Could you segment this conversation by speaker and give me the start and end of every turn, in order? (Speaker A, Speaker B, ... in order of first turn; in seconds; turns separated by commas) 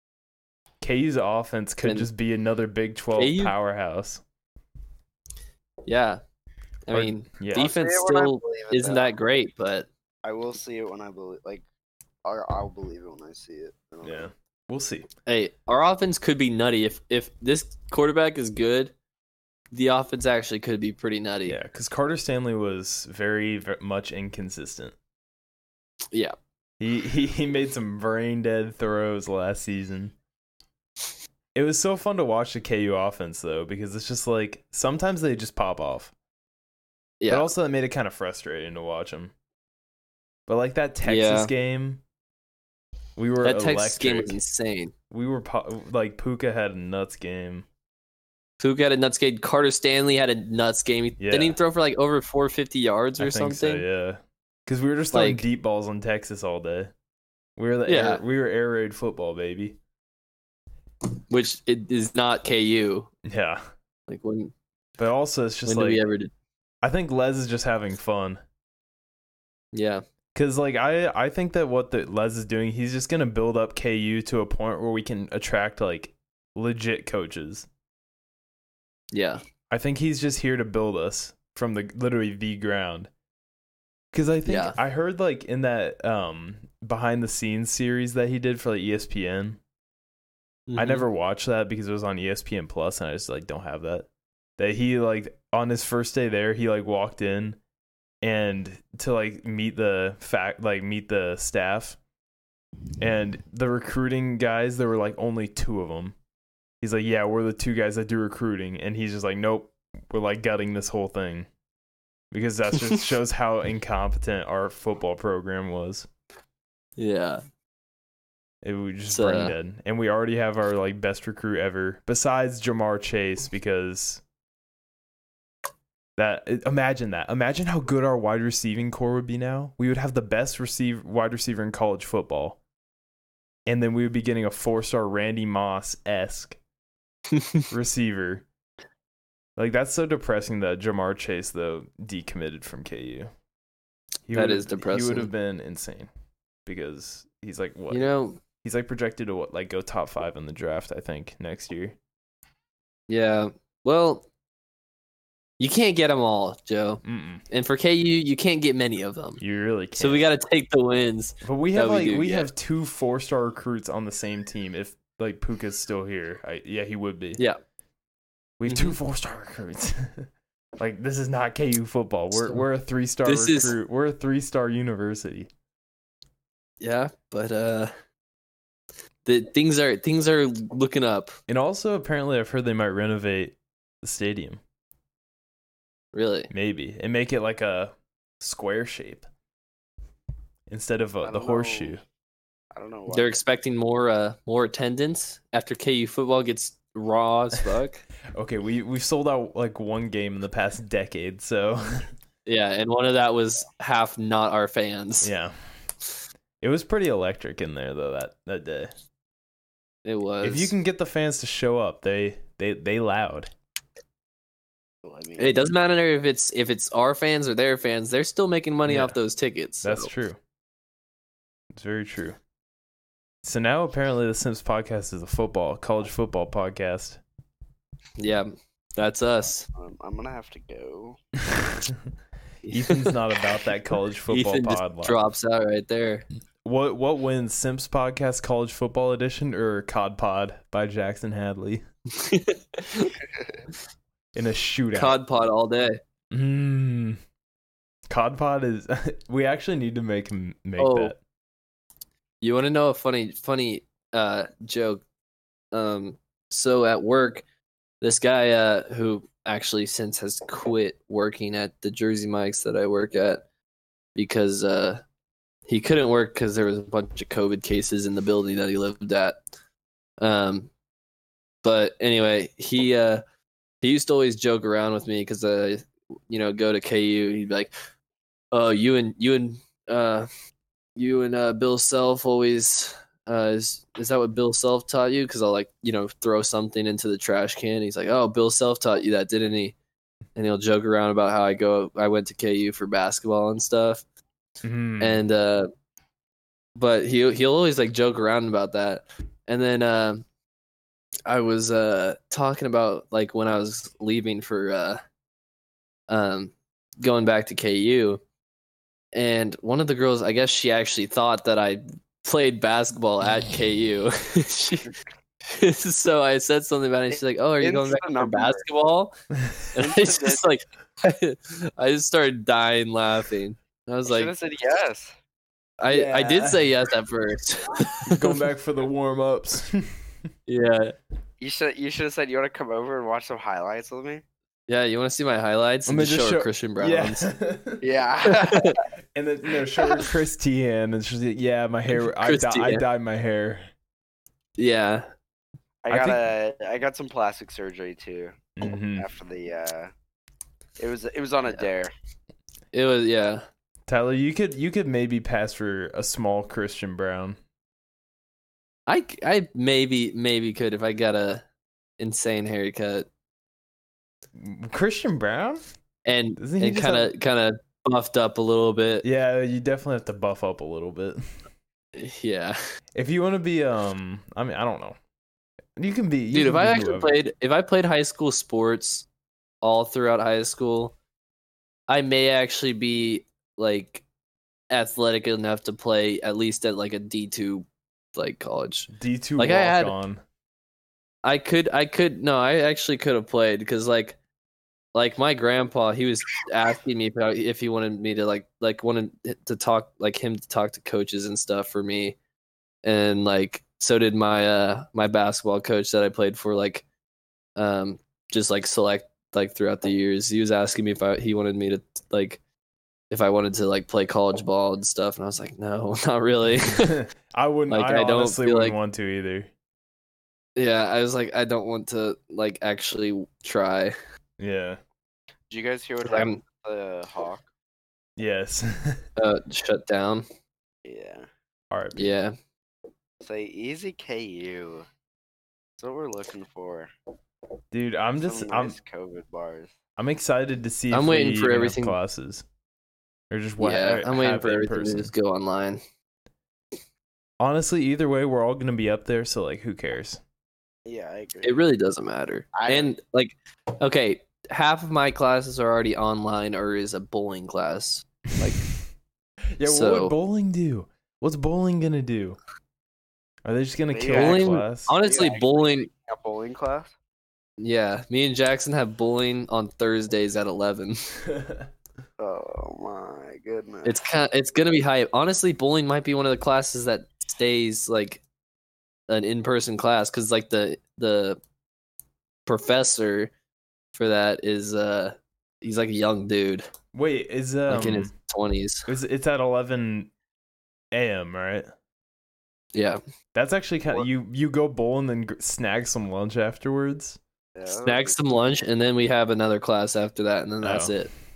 Speaker A: 0.8-4.2, Speaker B: 3.2-3.5, Speaker B: 5.8-6.2, Speaker B: 6.9-9.9, Speaker A: 6.9-7.7, Speaker C: 7.5-9.1, Speaker C: 10.2-11.6, Speaker C: 12.2-14.3, Speaker A: 14.0-15.1, Speaker B: 15.3-18.9, Speaker B: 19.7-21.6, Speaker A: 21.5-24.9, Speaker A: 26.8-30.1, Speaker A: 31.5-36.1, Speaker B: 37.2-37.5, Speaker A: 37.3-39.3, Speaker A: 40.5-42.0, Speaker B: 41.0-41.5, Speaker A: 43.2-44.4, Speaker B: 43.4-44.9, Speaker A: 45.1-47.6, Speaker B: 48.6-53.8, Speaker A: 51.2-51.6, Speaker A: 53.2-56.9, Speaker B: 55.1-55.4, Speaker A: 57.6-59.8, Speaker B: 57.9-58.2, Speaker B: 61.3-63.1, Speaker A: 63.2-63.6, Speaker B: 64.1-64.5, Speaker A: 65.0-66.0, Speaker B: 65.7-66.3, Speaker A: 66.8-68.4, Speaker B: 69.7-70.0, Speaker A: 70.3-77.7, Speaker B: 79.1-79.4, Speaker A: 79.7-83.1, Speaker A: 84.1-89.6, Speaker B: 84.5-84.8, Speaker B: 90.7-91.0, Speaker A: 90.8-94.1, Speaker A: 94.6-97.6, Speaker A: 98.2-102.0, Speaker A: 103.0-106.2, Speaker A: 106.8-111.5, Speaker A: 112.3-116.1, Speaker B: 117.0-117.4, Speaker A: 118.6-124.2, Speaker B: 119.1-119.5, Speaker A: 126.2-132.6, Speaker A: 133.7-136.6, Speaker B: 137.3-137.6, Speaker A: 137.7-138.4, Speaker A: 139.6-143.3, Speaker A: 144.3-146.1, Speaker B: 144.3-145.3, Speaker A: 146.7-148.1, Speaker B: 147.9-148.4, Speaker A: 148.6-152.0, Speaker B: 153.1-154.2, Speaker B: 155.6-159.4, Speaker A: 157.0-157.4, Speaker A: 159.4-160.2, Speaker B: 160.0-162.5, Speaker A: 161.4-167.4, Speaker A: 168.6-175.5, Speaker B: 168.7-168.9, Speaker B: 172.3-172.6, Speaker B: 173.2-173.8, Speaker B: 176.8-177.9, Speaker B: 179.2-181.3, Speaker A: 181.5-184.6, Speaker B: 186.1-186.5, Speaker A: 186.5-189.3, Speaker A: 190.7-192.0, Speaker C: 191.2-192.0, Speaker C: 192.7-193.4, Speaker B: 193.1-198.0, Speaker A: 198.3-202.1, Speaker B: 202.4-205.3, Speaker A: 205.2-205.5, Speaker A: 206.6-208.9, Speaker B: 210.0-210.7, Speaker A: 210.4-213.5, Speaker C: 215.0-215.7, Speaker B: 215.4-220.1, Speaker A: 218.8-219.2, Speaker A: 219.8-220.4, Speaker A: 221.7-222.4, Speaker A: 223.4-227.2, Speaker B: 228.2-229.7, Speaker C: 229.7-231.2, Speaker B: 232.7-233.1, Speaker A: 232.7-235.2, Speaker B: 234.3-236.2, Speaker A: 236.6-241.8, Speaker B: 242.1-243.2, Speaker A: 244.3-245.2, Speaker B: 244.9-246.0, Speaker A: 246.3-247.2, Speaker A: 248.1-251.2, Speaker B: 250.8-251.1, Speaker B: 252.4-255.0, Speaker B: 255.7-257.4, Speaker B: 258.0-263.4, Speaker B: 264.1-265.0, Speaker B: 265.7-269.4, Speaker B: 270.2-270.7, Speaker B: 271.6-273.2, Speaker B: 273.8-277.7, Speaker B: 278.5-280.3, Speaker B: 280.9-289.7, Speaker B: 290.4-294.0, Speaker A: 294.6-295.2, Speaker B: 295.0-295.7, Speaker B: 296.8-300.2, Speaker B: 301.2-305.0, Speaker B: 306.1-308.2, Speaker B: 309.1-319.1, Speaker C: 317.6-318.6, Speaker B: 319.7-324.3, Speaker C: 319.8-320.4, Speaker C: 324.1-325.1, Speaker B: 325.8-328.4, Speaker A: 325.9-326.7, Speaker A: 328.1-330.0, Speaker B: 330.5-330.9, Speaker C: 331.4-334.2, Speaker B: 334.7-337.3, Speaker A: 335.9-337.8, Speaker C: 337.8-338.8, Speaker B: 338.3-338.8, Speaker A: 339.1-343.7, Speaker B: 342.0-342.8, Speaker B: 344.6-345.1, Speaker C: 345.8-348.4, Speaker A: 345.9-346.2, Speaker A: 348.6-349.1, Speaker C: 348.9-349.9, Speaker C: 350.8-351.9, Speaker B: 352.7-353.4, Speaker A: 353.9-357.4, Speaker B: 358.9-361.4, Speaker B: 362.0-363.1, Speaker A: 364.4-365.6, Speaker B: 366.1-369.0, Speaker A: 366.4-367.1, Speaker A: 369.0-371.3, Speaker B: 371.9-372.6, Speaker A: 372.9-375.0, Speaker A: 375.8-377.1, Speaker B: 376.3-379.1, Speaker B: 379.6-380.9, Speaker B: 381.9-384.0, Speaker B: 384.7-389.9, Speaker A: 388.9-390.2, Speaker B: 391.2-394.2, Speaker B: 394.9-402.1, Speaker B: 402.8-406.8, Speaker B: 407.6-412.4, Speaker B: 413.1-417.0, Speaker A: 416.8-419.5, Speaker B: 417.7-418.8, Speaker B: 420.6-423.9, Speaker A: 424.4-424.8, Speaker C: 425.5-427.5, Speaker B: 426.0-426.4, Speaker A: 428.2-429.0, Speaker B: 429.2-430.2, Speaker C: 430.8-431.3, Speaker A: 431.7-432.1, Speaker B: 431.9-432.3, Speaker C: 433.2-434.9, Speaker C: 435.8-436.9, Speaker A: 437.7-438.8, Speaker C: 438.2-439.7, Speaker A: 440.0-442.4, Speaker B: 440.9-442.0, Speaker A: 443.3-445.1, Speaker B: 443.6-445.8, Speaker A: 447.4-450.2, Speaker C: 450.9-451.6, Speaker B: 451.4-458.6, Speaker C: 452.5-452.9, Speaker A: 459.6-462.4, Speaker B: 459.6-460.1, Speaker A: 463.4-464.9, Speaker C: 463.9-466.9, Speaker B: 464.1-465.9, Speaker B: 467.6-471.0, Speaker A: 471.3-471.7, Speaker C: 472.2-474.1, Speaker B: 473.8-478.2, Speaker B: 479.1-481.4, Speaker B: 482.4-483.3, Speaker B: 483.9-486.7, Speaker A: 486.9-488.1, Speaker B: 487.7-488.9, Speaker A: 488.9-490.1, Speaker A: 490.9-491.7, Speaker B: 492.7-493.0, Speaker A: 493.3-497.2, Speaker C: 497.5-498.3, Speaker B: 497.8-501.1, Speaker A: 500.6-500.9